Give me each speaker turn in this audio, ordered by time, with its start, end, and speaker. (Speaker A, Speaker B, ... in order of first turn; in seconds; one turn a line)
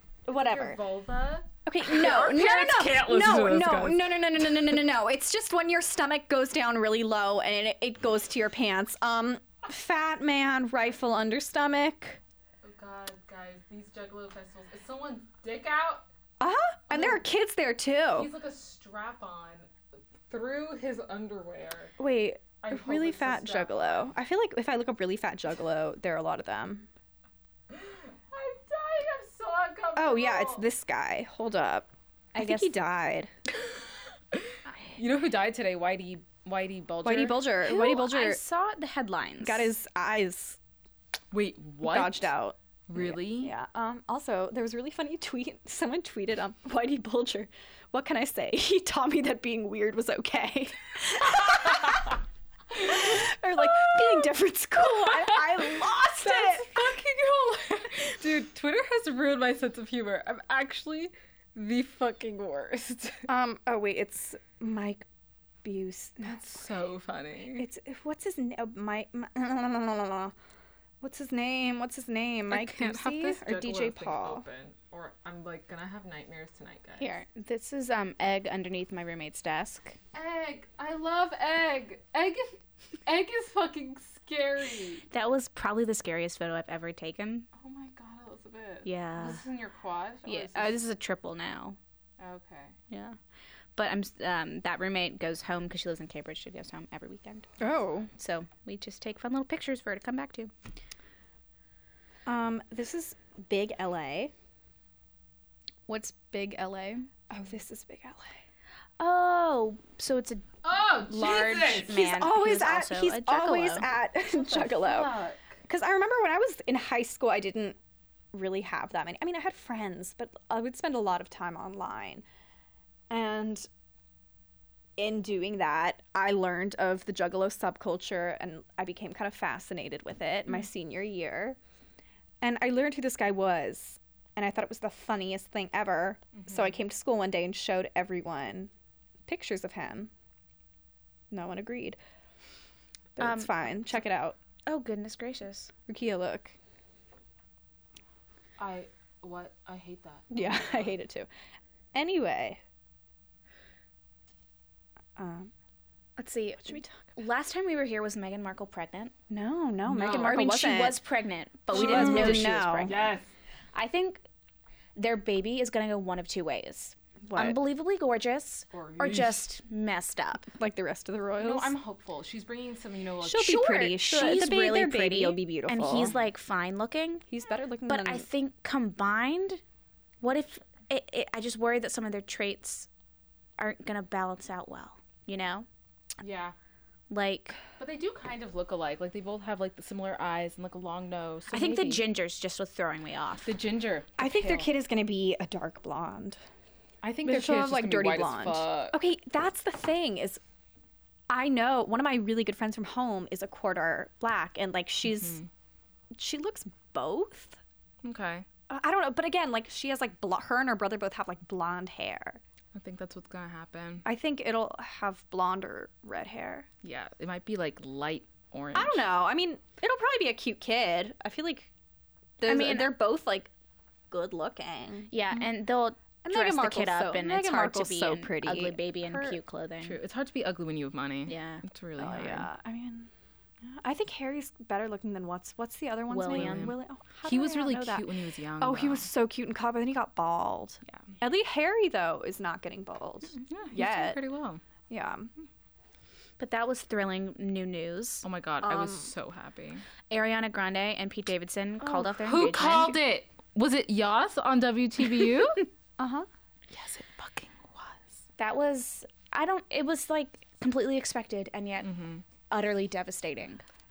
Speaker A: 0.2-0.8
Speaker B: 0.3-4.2
Speaker A: 1.6-12.2
Speaker B: 12.6-16.1
Speaker A: 16.4-18.3
Speaker B: 16.9-17.2
Speaker B: 18.1-19.7
Speaker B: 20.3-21.9
Speaker A: 22.0-26.9
Speaker B: 22.6-24.1
Speaker B: 27.7-30.6
Speaker A: 29.9-33.3
Speaker C: 32.4-32.7
Speaker B: 34.3-37.5
Speaker C: 34.7-35.0
Speaker A: 37.0-38.4
Speaker C: 37.6-39.7
Speaker A: 39.4-40.6
Speaker B: 41.3-42.3
Speaker A: 41.8-52.2
Speaker B: 42.9-43.5
Speaker A: 52.7-56.9
Speaker B: 53.6-54.3
Speaker B: 54.8-63.3
Speaker A: 63.3-65.1
Speaker A: 65.6-66.6
Speaker B: 66.2-67.7
Speaker A: 67.5-70.3
Speaker A: 71.0-74.4
Speaker B: 72.5-77.2
Speaker C: 77.0-80.0
Speaker B: 80.1-85.0
Speaker C: 85.1-87.5
Speaker B: 87.5-90.8
Speaker C: 88.8-89.4
Speaker C: 90.2-91.8
Speaker B: 92.2-92.8
Speaker C: 92.9-93.2
Speaker C: 93.8-100.5
Speaker A: 97.6-98.1
Speaker A: 102.2-104.3
Speaker C: 105.9-107.1
Speaker A: 107.3-108.4
Speaker C: 109.0-110.5
Speaker B: 110.6-112.0
Speaker C: 111.0-113.9
Speaker A: 111.9-115.2
Speaker B: 114.3-115.6
Speaker A: 115.7-117.8
Speaker A: 118.3-122.2
Speaker A: 123.1-123.7
Speaker A: 125.0-131.6
Speaker A: 132.4-138.7
Speaker B: 136.3-136.7
Speaker A: 139.3-140.1
Speaker A: 141.3-142.0
Speaker A: 143.2-144.4
Speaker C: 143.2-144.0
Speaker C: 144.7-145.7
Speaker A: 145.9-146.6
Speaker B: 148.6-150.9
Speaker A: 150.3-151.3
Speaker A: 151.9-152.6
Speaker A: 155.2-155.5
Speaker C: 156.2-159.1
Speaker A: 156.6-157.1
Speaker A: 159.3-161.0
Speaker B: 159.9-160.4
Speaker C: 160.2-163.1
Speaker A: 161.7-162.9
Speaker B: 161.7-163.3
Speaker C: 163.7-164.2
Speaker C: 164.9-170.5
Speaker A: 167.2-167.6
Speaker B: 168.7-169.4
Speaker A: 170.4-171.7
Speaker B: 171.4-173.9
Speaker A: 173.2-176.1
Speaker C: 173.8-177.2
Speaker A: 177.3-178.3
Speaker C: 177.9-179.6
Speaker C: 180.2-182.9
Speaker C: 183.6-185.7
Speaker B: 186.2-186.5
Speaker C: 187.1-187.6
Speaker B: 187.8-192.0
Speaker C: 191.5-193.5
Speaker B: 193.4-194.7
Speaker A: 194.2-196.4
Speaker B: 197.0-199.0
Speaker A: 197.2-200.4
Speaker A: 201.3-205.4
Speaker B: 205.1-205.5
Speaker A: 206.1-207.6
Speaker B: 208.0-208.4
Speaker A: 208.7-212.4
Speaker B: 212.7-214.0
Speaker A: 214.0-216.7
Speaker B: 216.8-219.1
Speaker A: 218.7-221.7
Speaker A: 222.4-223.5
Speaker C: 222.4-222.9
Speaker A: 224.1-225.1
Speaker C: 225.1-230.0
Speaker A: 226.2-229.3
Speaker B: 229.8-232.5
Speaker C: 231.3-231.6
Speaker A: 232.0-233.1
Speaker A: 233.6-244.2
Speaker C: 236.1-236.7
Speaker B: 236.3-239.1
Speaker B: 243.5-244.6
Speaker A: 244.9-245.3
Speaker C: 246.4-248.2
Speaker B: 248.2-249.8
Speaker A: 248.6-249.1
Speaker C: 250.1-253.0
Speaker A: 251.8-252.4
Speaker B: 252.2-255.7
Speaker A: 256.0-256.3
Speaker B: 256.7-258.2
Speaker C: 258.4-261.9
Speaker B: 261.8-262.2
Speaker C: 262.5-263.6